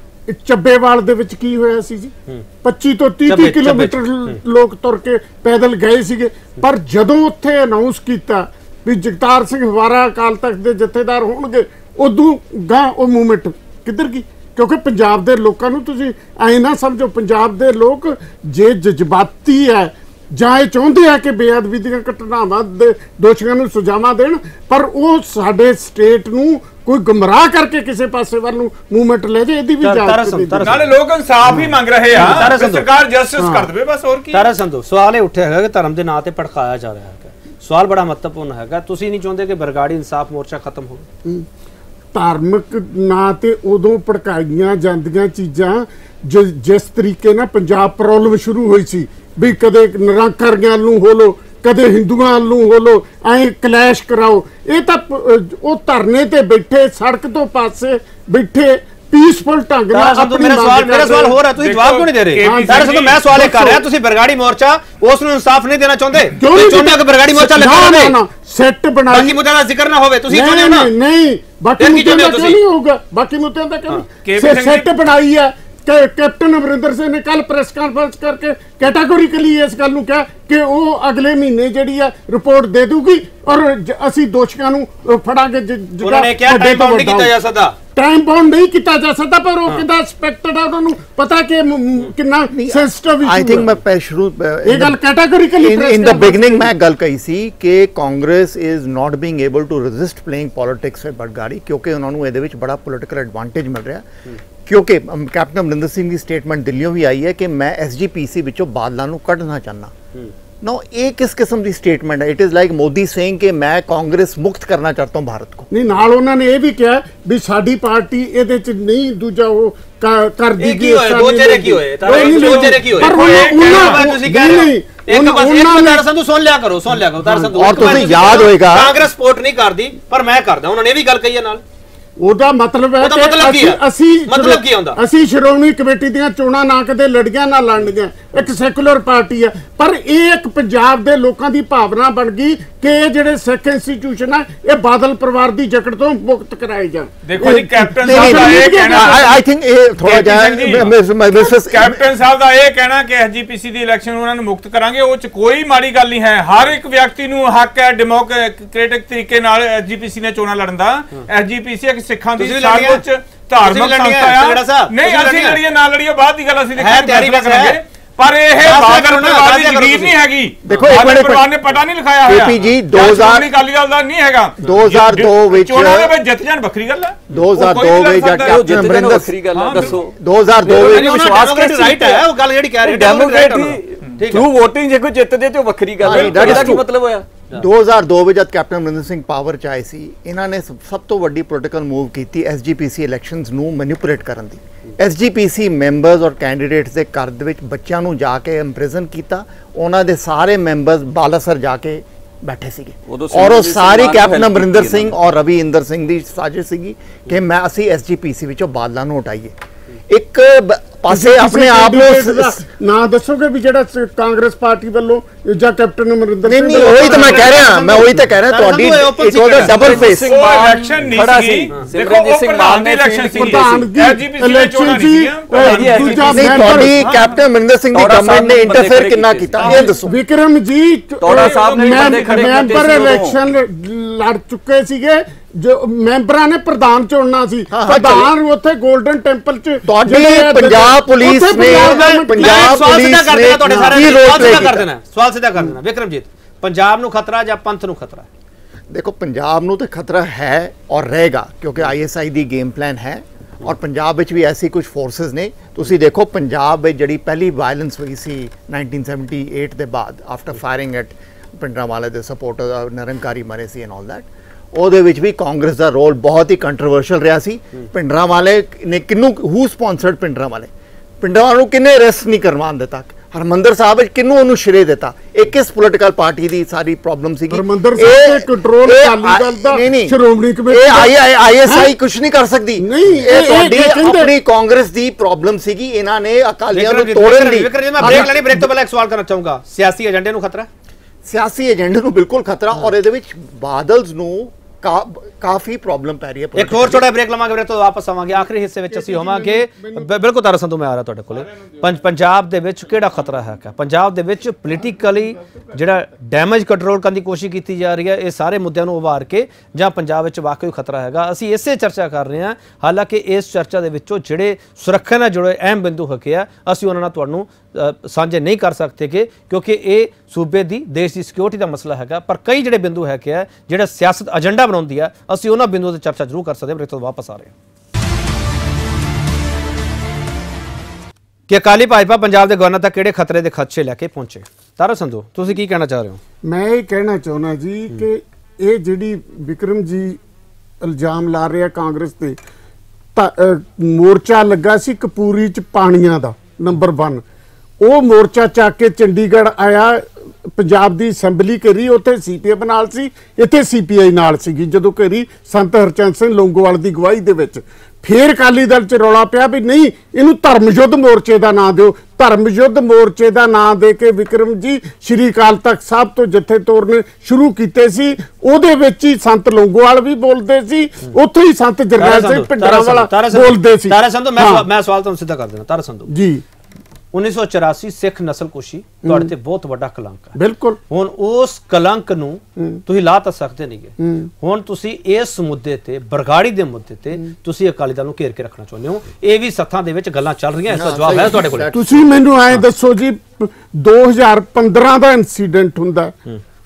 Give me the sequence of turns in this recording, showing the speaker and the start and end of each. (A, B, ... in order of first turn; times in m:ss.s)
0:00.3-0:30.9 A
0:03.2-0:04.4 B
0:29.8-0:30.9 B
0:30.6-0:34.5 C
0:31.5-0:32.4 A
0:32.1-0:32.9 B
0:33.4-0:33.7 A
0:34.3-0:41.0 B
0:42.1-1:01.4 A
0:59.9-1:08.2 B
1:01.5-1:03.4 C
1:02.4-1:03.8 A
1:06.3-1:09.4 A
1:09.1-1:10.9 B
1:10.3-1:27.4 A
1:11.8-1:12.6 B
1:14.2-1:14.9 C
1:26.0-1:27.8 B
1:27.9-1:33.7 A
1:32.5-1:35.0 D
1:34.6-1:36.7 A
1:35.6-1:44.0 D
1:44.6-1:49.9 D
1:50.6-1:55.7 D
1:55.7-2:06.0 A
2:00.6-2:11.6 B
2:02.0-2:04.1 C
2:07.2-2:08.0 A
2:07.6-2:09.0 D
2:12.2-2:29.3 A
2:13.0-2:15.0 B
2:27.2-2:29.4 C
2:28.0-2:32.1 D
2:30.0-2:58.8 C
2:42.4-2:43.0 B
2:43.6-2:45.6 B
2:46.8-2:47.8 B
2:48.6-2:50.1 B
2:50.6-2:51.5 D
2:52.2-2:53.5 D
2:54.6-2:56.1 D
2:57.3-2:59.3 D
2:58.3-3:02.3 E
2:59.5-3:00.0 C
2:59.9-3:01.2 D
3:00.7-3:04.5 B
3:02.8-3:07.2 E
3:06.0-3:06.8 D
3:06.1-3:06.7 C
3:07.5-3:29.5 D
3:23.1-3:25.1 E
3:30.1-3:32.6 D
3:31.1-3:37.6 A
3:36.4-3:40.4 D
3:36.7-3:40.0 B
3:39.6-3:43.9 E
3:39.8-3:47.3 C
3:43.3-3:47.0 A
3:45.6-3:46.8 E
3:46.3-3:50.1 D
3:47.9-3:49.8 E
3:49.6-4:02.8 A
3:51.2-3:53.4 E
3:51.3-3:52.7 C
3:57.7-3:58.3 D
3:59.8-4:04.9 D
4:01.6-4:08.3 B
4:03.7-4:04.6 A
4:08.9-4:30.7 D
4:31.2-4:48.6 D
4:37.5-4:41.1 A
4:41.6-4:41.9 A
4:42.8-4:44.3 A
4:46.7-4:50.7 B
4:48.0-4:48.3 A
4:51.2-4:57.1 D
4:56.5-5:27.5 B
4:58.9-5:00.1 A
5:31.5-5:36.2 B
5:36.4-5:40.2 A
5:40.8-5:42.4 A
5:43.1-5:47.2 A
5:47.8-6:14.6 A
6:12.0-6:16.1 B
6:16.1-6:16.4 A
6:17.1-6:20.3 B
6:19.0-6:19.3 A
6:20.4-6:20.8 A
6:20.9-6:31.7 B
6:24.0-6:24.3 A
6:30.7-6:32.6 D
6:31.7-6:36.2 A